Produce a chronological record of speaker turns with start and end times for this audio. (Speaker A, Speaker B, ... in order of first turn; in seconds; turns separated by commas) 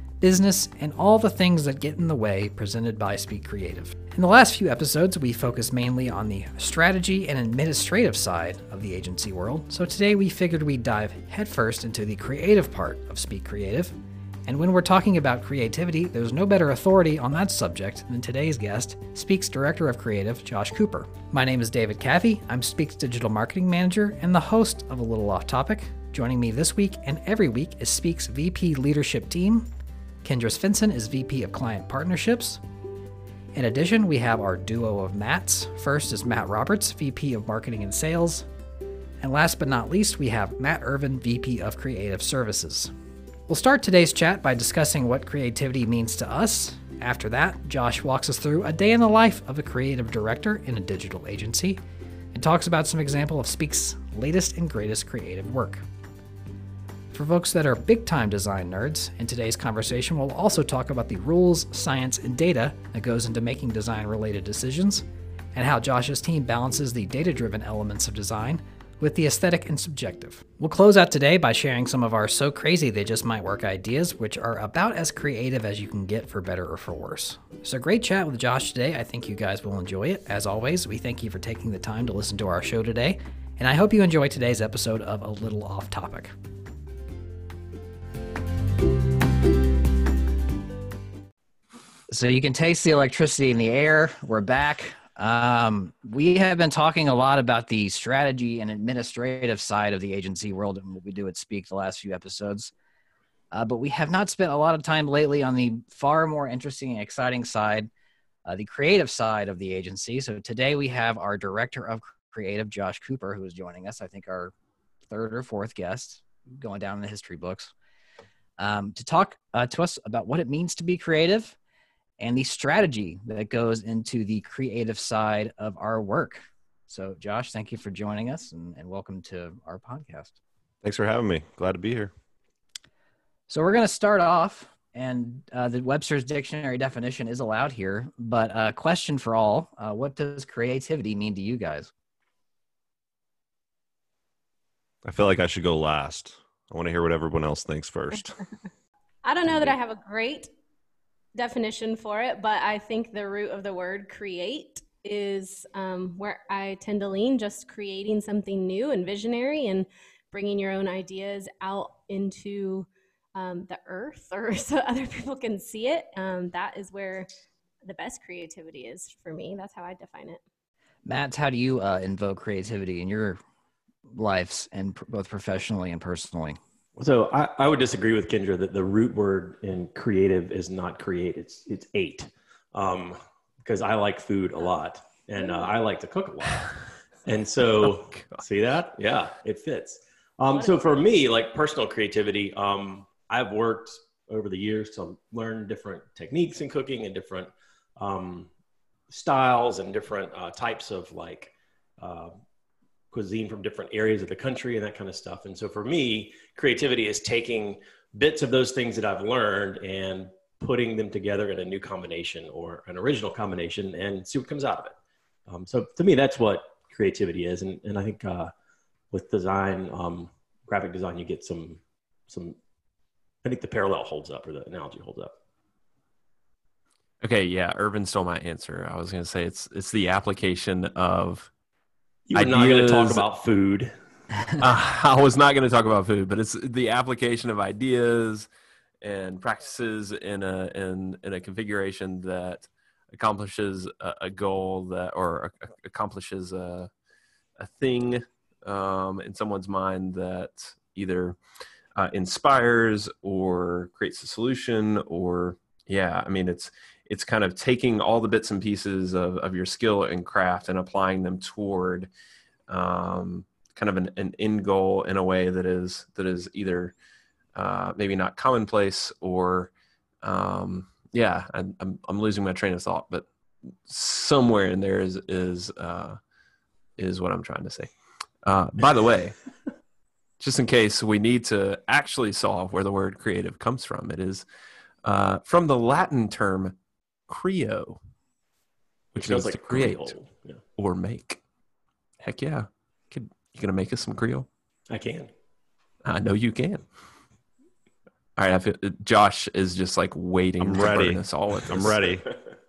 Speaker A: 0.2-13.9, Speaker A: 14.4-29.7, Speaker A: 30.2-32.6, Speaker A: 33.5-38.5, Speaker A: 39.2-42.9, Speaker A: 43.5-51.8, Speaker A: 52.3-55.8, Speaker A: 57.1-86.3, Speaker A: 92.1-102.7, Speaker A: 103.5-107.9, Speaker A: 108.5-114.5, Speaker A: 115.1-117.7, Speaker A: 118.6-121.5, Speaker A: 122.2-130.3, Speaker B: 130.8-132.1, Speaker A: 133.5-141.9, Speaker B: 145.0-148.4, Speaker C: 149.2-150.5, Speaker C: 151.3-167.3, Speaker C: 167.8-170.4, Speaker A: 171.1-173.4, Speaker A: 174.1-176.6, Speaker D: 177.0-198.5, Speaker D: 199.1-202.4, Speaker D: 203.1-214.9, Speaker D: 215.5-218.5, Speaker D: 219.1-222.6, Speaker D: 223.4-225.3, Speaker E: 227.2-231.5, Speaker D: 232.3-233.9, Speaker E: 232.3-233.3, Speaker E: 234.6-238.5, Speaker E: 239.0-246.9, Speaker E: 247.6-251.4, Speaker E: 251.9-262.1, Speaker E: 262.7-266.9, Speaker E: 267.5-269.7, Speaker E: 270.2-273.2, Speaker E: 273.8-276.2, Speaker E: 277.0-277.9, Speaker E: 278.4-279.4, Speaker E: 280.4-284.4, Speaker E: 285.0-286.8, Speaker E: 287.3-288.0, Speaker D: 289.1-290.6, Speaker E: 289.1-290.2, Speaker E: 290.8-291.4, Speaker E: 292.2-294.5, Speaker D: 294.9-295.3, Speaker E: 296.0-296.8, Speaker E: 298.4-302.1, Speaker B: 300.6-302.3